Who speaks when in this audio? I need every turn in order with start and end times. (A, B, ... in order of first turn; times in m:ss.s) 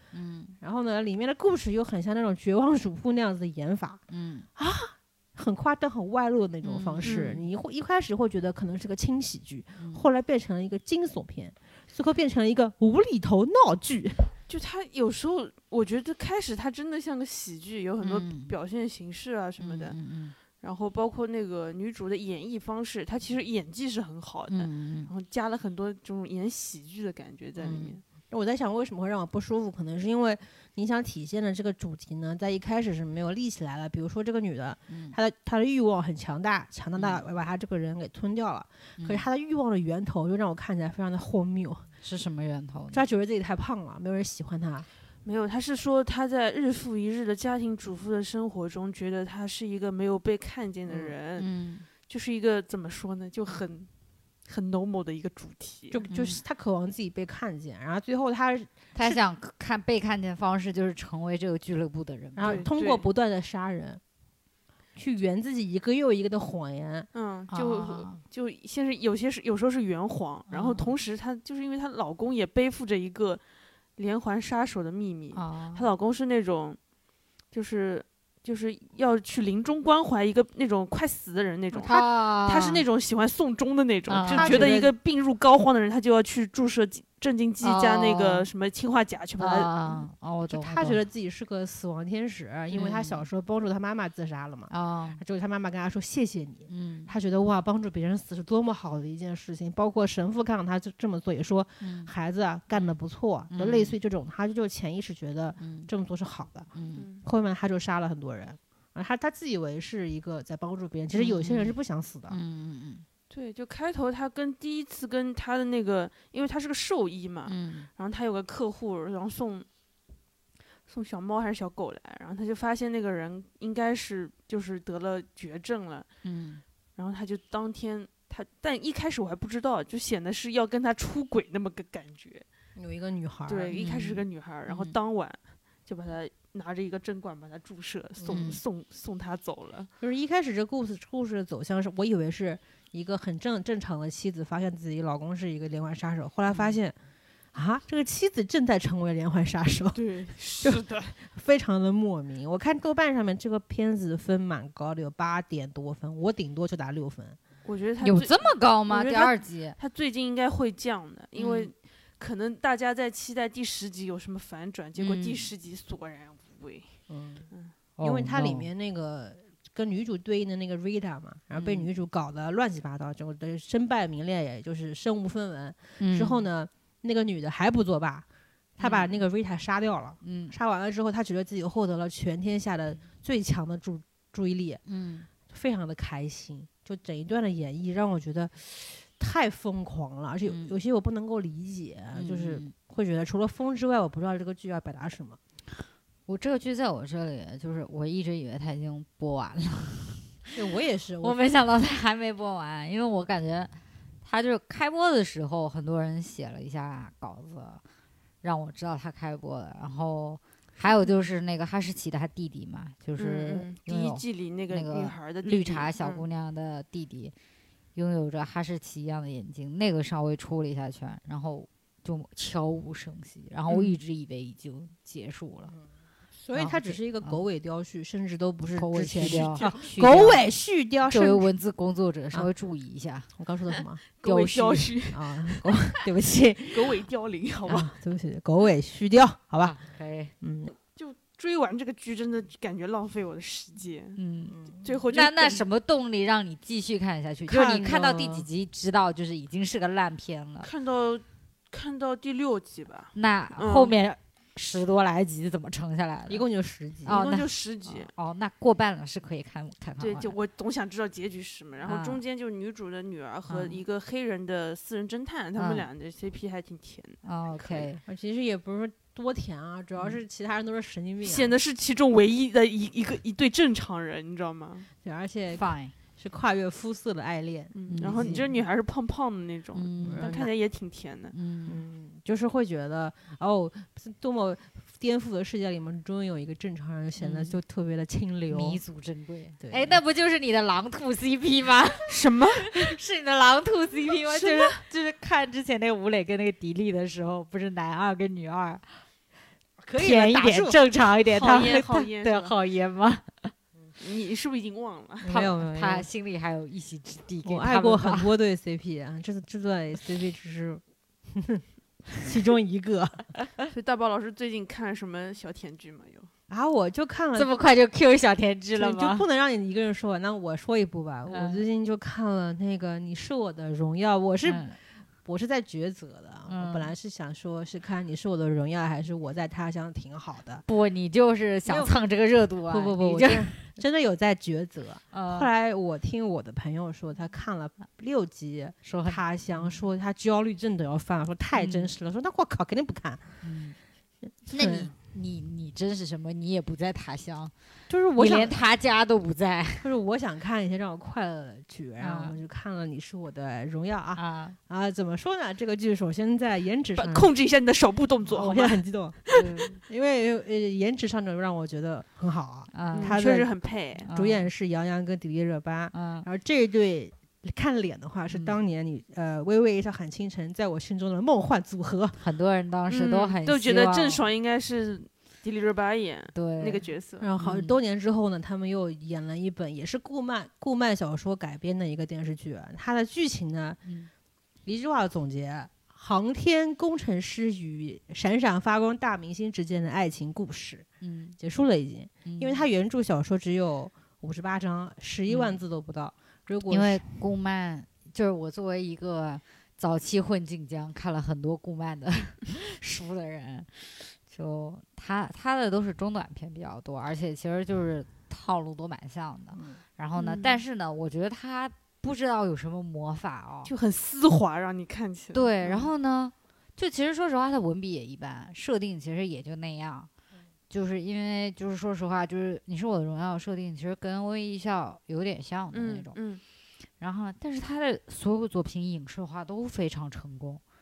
0:00.1-0:00.6 A
0:00.6-0:04.0 B
0:04.1-0:04.5 A
0:04.6-0:14.3 B
0:06.6-0:07.4 A
0:07.1-0:07.4 C
0:09.8-0:10.0 A
0:14.5-0:20.0 C
0:18.0-0:18.5 A
0:19.6-0:20.4 A
0:20.6-0:28.0 C
0:24.5-0:25.1 A
0:27.6-0:41.9 B
0:34.9-0:35.2 A
0:37.0-0:37.2 A
0:39.0-0:39.3 A
0:42.0-0:43.0 A
0:42.9-0:44.9 B
0:45.2-0:51.5 C
0:50.9-0:51.1 B
0:51.4-0:51.9 A
0:52.1-0:53.9 C
0:54.4-0:56.0 C
0:55.9-0:59.2 B
0:56.1-0:56.4 A
0:59.0-1:02.7 A
1:02.4-1:04.0 B
1:02.4-1:03.1 C
1:05.0-1:07.1 B
1:07.1-1:13.4 C
1:07.5-1:08.2 A
1:10.5-1:10.9 A
1:14.0-1:16.8 C
1:15.3-1:15.9 A
1:17.5-1:30.0 C
1:21.8-1:22.8 A
1:24.1-1:24.7 A
1:24.3-1:24.9 B
1:27.6-1:28.5 A
1:29.4-1:31.0 A
1:30.5-1:46.7 B
1:32.7-1:33.2 A
1:34.7-1:35.2 A
1:36.7-1:37.1 A
1:41.8-1:42.1 A
1:43.5-1:44.0 A
1:45.6-1:45.9 A
1:46.8-1:47.0 A
1:47.0-1:47.2 C
1:47.2-1:52.4 B
1:51.1-1:51.8 A
1:52.3-1:53.0 A
1:53.3-1:59.7 C
1:57.5-1:57.9 A
2:00.9-2:06.1 C
2:06.2-2:06.6 A
2:07.0-2:12.5 C
2:12.8-2:13.8 B
2:13.5-2:19.9 C
2:13.7-2:15.0 A
2:18.2-2:18.5 B
2:18.3-2:18.6 A
2:20.0-2:27.0 B
2:27.5-2:30.0 B
2:29.9-2:31.2 C
2:30.6-2:37.4 B
2:37.6-2:46.9 C
2:38.0-2:39.8 A
2:41.4-2:41.7 A
2:45.0-2:45.5 A
2:47.1-2:47.5 B
2:48.0-2:48.7 A
2:48.0-2:58.3 B
2:51.5-2:51.9 A
2:56.0-2:56.5 A
2:58.8-3:04.8 B
2:58.8-2:59.2 A
3:00.2-3:00.6 A
3:04.9-3:05.3 A
3:05.5-3:15.4 B
3:10.5-3:10.7 A
3:12.1-3:12.7 A
3:16.3-3:20.5 A
3:20.6-3:21.4 B
3:21.2-3:27.8 A
3:28.4-3:37.3 A
3:33.2-3:36.3 C
3:38.0-3:45.8 A
3:43.7-3:44.0 C
3:46.4-3:51.5 B
3:46.5-3:47.4 A
3:48.8-3:50.4 A
3:49.3-3:49.7 C
3:51.1-3:53.3 A
3:53.4-3:54.0 B
3:54.2-3:55.9 C
3:54.3-3:54.9 A
3:55.1-3:57.0 B
3:56.7-3:57.9 C
3:57.7-3:59.8 B
3:59.6-4:00.3 A
4:00.4-4:00.7 B
4:01.0-4:04.2 C
4:04.2-4:04.6 A
4:04.5-4:04.9 B
4:04.8-4:05.6 C
4:05.1-4:10.7 A
4:07.5-4:08.5 B
4:10.6-4:14.0 C
4:13.2-4:16.4 A
4:16.3-4:17.2 B
4:17.0-4:20.3 A
4:17.1-4:18.1 C
4:20.0-4:27.9 C
4:21.8-4:22.2 A
4:23.5-4:23.8 A
4:25.6-4:25.9 A
4:27.2-4:28.0 A
4:28.0-4:31.6 B
4:31.2-4:34.9 C
4:35.0-4:38.5 B
4:35.5-4:35.9 A
4:37.8-4:41.3 C
4:37.9-4:38.4 A
4:39.8-4:40.3 A
4:40.1-4:40.5 B
4:41.3-4:41.8 A
4:41.7-4:48.8 B
4:47.2-4:47.6 A
4:48.5-4:59.0 A
4:49.6-4:50.0 B
4:52.1-4:52.7 C
4:54.3-4:54.8 C
4:59.8-5:00.8 B
5:00.0-5:03.5 A
5:01.3-5:02.6 C
5:01.4-5:01.7 B
5:04.0-5:05.4 C
5:05.2-5:06.1 B
5:05.3-5:08.3 A
5:07.4-5:11.6 B
5:12.2-5:13.2 B
5:13.7-5:16.3 C
5:16.5-5:17.5 B
5:17.4-5:19.2 A
5:18.8-5:24.7 B
5:21.3-5:21.6 A
5:24.4-5:24.8 A
5:25.2-5:30.6 B
5:26.5-5:26.9 A
5:30.7-5:33.7 A
5:31.7-5:32.0 B
5:32.7-5:43.4 B
5:35.1-5:35.5 A
5:38.8-5:39.8 A
5:41.6-5:41.9 A
5:43.4-5:43.8 A
5:44.5-5:47.5 A
5:44.5-5:44.9 B
5:47.9-5:48.6 B
5:48.2-5:49.9 A
5:49.8-5:57.3 B
5:52.0-5:52.4 A
5:54.2-5:54.6 A
5:57.0-5:58.8 C
5:58.3-6:03.5 B
5:59.3-5:59.8 A
6:02.7-6:03.2 A
6:02.9-6:04.1 C
6:04.1-6:04.5 A
6:04.1-6:12.2 B
6:05.9-6:06.3 A
6:12.2-6:14.2 A
6:12.9-6:17.3 C
6:16.3-6:16.8 A
6:17.2-6:23.8 B
6:17.4-6:17.8 A
6:23.8-6:24.1 A
6:24.7-6:30.9 B
6:31.0-6:31.4 A
6:31.4-6:37.1 B
6:32.3-6:32.6 A
6:35.3-6:35.6 A
6:36.7-6:53.7 A
6:50.2-6:50.6 C
6:53.7-6:55.9 C
6:55.3-7:00.1 A
7:00.7-7:06.2 A
7:05.7-7:06.4 C
7:07.0-7:10.6 A